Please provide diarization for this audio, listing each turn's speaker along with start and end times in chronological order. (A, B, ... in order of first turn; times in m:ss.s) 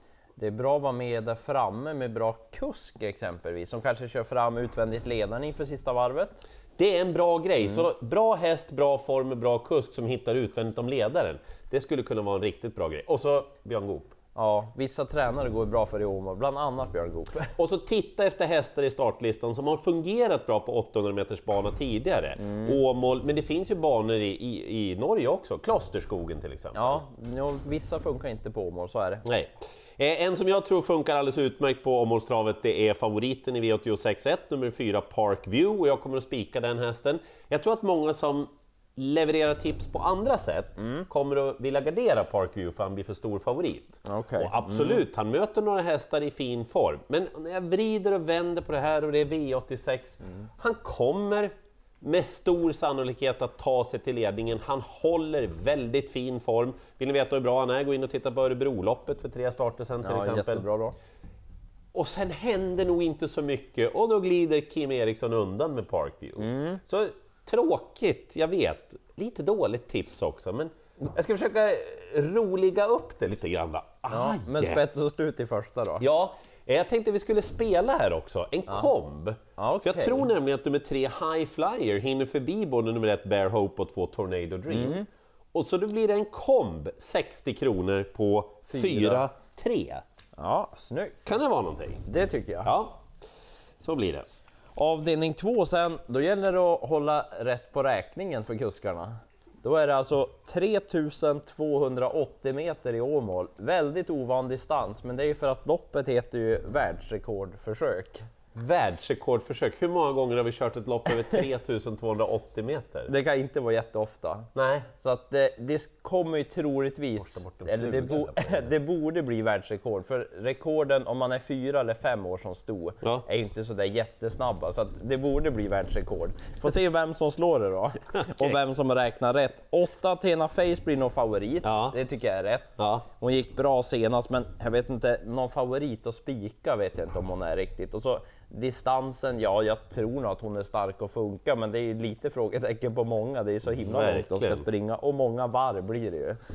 0:00.4-0:06.4 A
0:06.8-0:14.1 B
0:14.3-0:17.5 A
0:17.6-0:27.0 B
0:22.4-0:22.8 A
0:26.7-0:29.2 A
0:29.2-1:00.6 B
0:40.8-0:41.1 A
0:44.0-0:45.0 A
1:00.0-1:01.0 A
1:01.9-1:14.8 B
1:06.4-1:06.8 A
1:14.1-1:16.0 A
1:16.0-1:30.0 B
1:19.6-1:20.3 A
1:24.7-1:25.0 A
1:28.7-1:29.2 A
1:30.4-1:31.2 A
1:31.2-1:32.0 B
1:32.0-1:32.7 A
1:32.6-1:33.0 B
1:33.8-1:34.2 B
1:34.8-1:48.2 A
1:48.5-1:53.1 B
1:53.1-2:26.4 A
1:54.5-1:54.9 B
1:57.2-1:58.7 B
2:11.6-2:12.0 B
2:12.8-2:13.0 B
2:23.8-2:24.6 B